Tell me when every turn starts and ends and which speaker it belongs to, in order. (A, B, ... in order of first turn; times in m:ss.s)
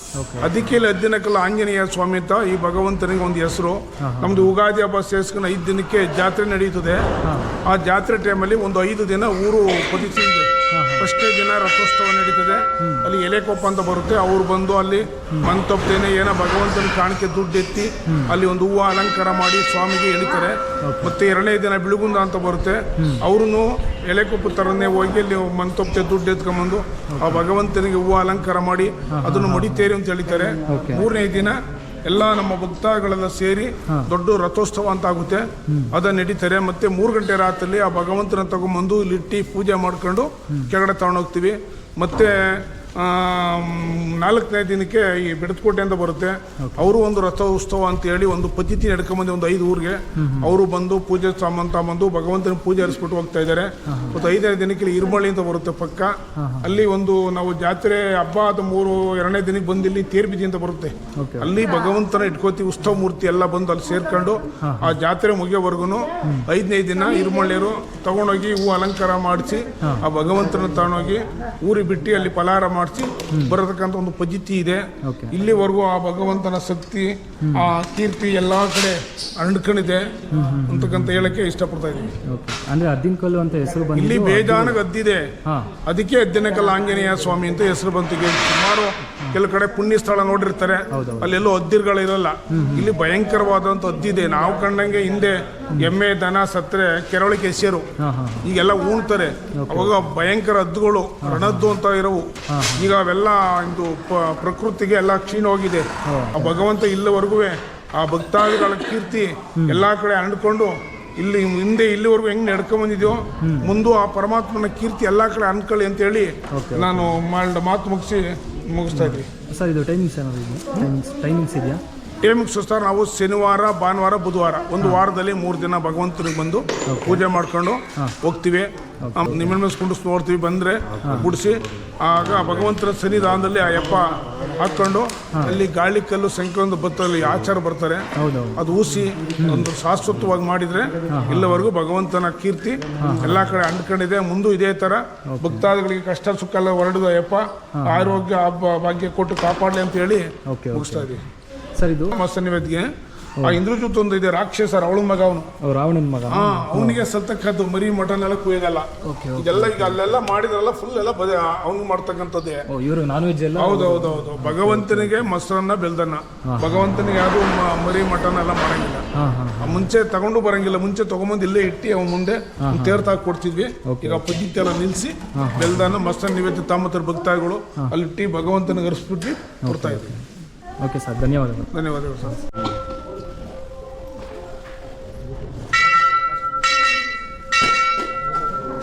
0:00.2-0:00.5 A
0:00.4-0:07.0 B
0:04.0-0:04.5 A
0:07.2-0:07.5 A
0:07.6-0:10.5 B
0:10.7-0:11.1 A
0:11.0-1:20.1 B
0:18.1-0:18.4 A
0:20.8-0:21.1 A
0:27.1-0:27.4 A
0:29.1-0:29.9 A
0:30.7-0:31.1 A
0:46.6-0:46.9 A
0:50.2-0:50.5 A
0:53.9-0:54.2 A
0:56.4-0:56.7 A
1:01.2-1:01.5 A
1:04.6-1:04.9 A
1:15.0-1:15.3 A
1:20.3-1:21.3 A
1:20.7-1:22.1 B
1:22.3-1:24.8 A
1:23.9-1:25.2 B
1:25.9-1:37.9 B
1:30.9-1:31.3 A
1:32.5-1:32.9 A
1:38.0-1:38.5 A
1:38.4-1:59.3 B
1:39.6-1:40.0 A
1:41.2-1:41.7 A
1:42.5-1:42.9 A
1:46.1-1:46.5 A
1:53.4-1:53.7 A
1:56.5-1:57.1 A
1:58.9-2:01.8 A
2:02.2-2:31.2 B
2:06.9-2:07.2 A
2:09.0-2:09.5 A
2:11.0-2:11.3 A
2:18.2-2:18.6 A
2:19.4-2:19.7 A
2:21.1-2:21.6 A
2:23.0-2:23.4 A
2:25.3-2:25.6 A
2:27.8-2:28.2 A
2:30.5-2:31.2 A
2:31.8-2:32.1 A
2:32.1-2:32.9 B
2:33.4-2:35.5 B
2:35.6-2:37.0 A
2:36.3-2:42.6 B
2:39.0-2:40.0 A
2:42.7-2:45.3 A
2:43.5-2:49.0 B
2:46.5-2:46.9 A
2:49.2-2:49.8 A
2:49.6-3:00.2 B
2:52.6-2:53.0 A
2:53.8-2:54.4 A
2:55.4-2:55.9 A
2:59.6-3:00.2 A
3:00.8-3:01.7 A
3:01.7-3:02.4 B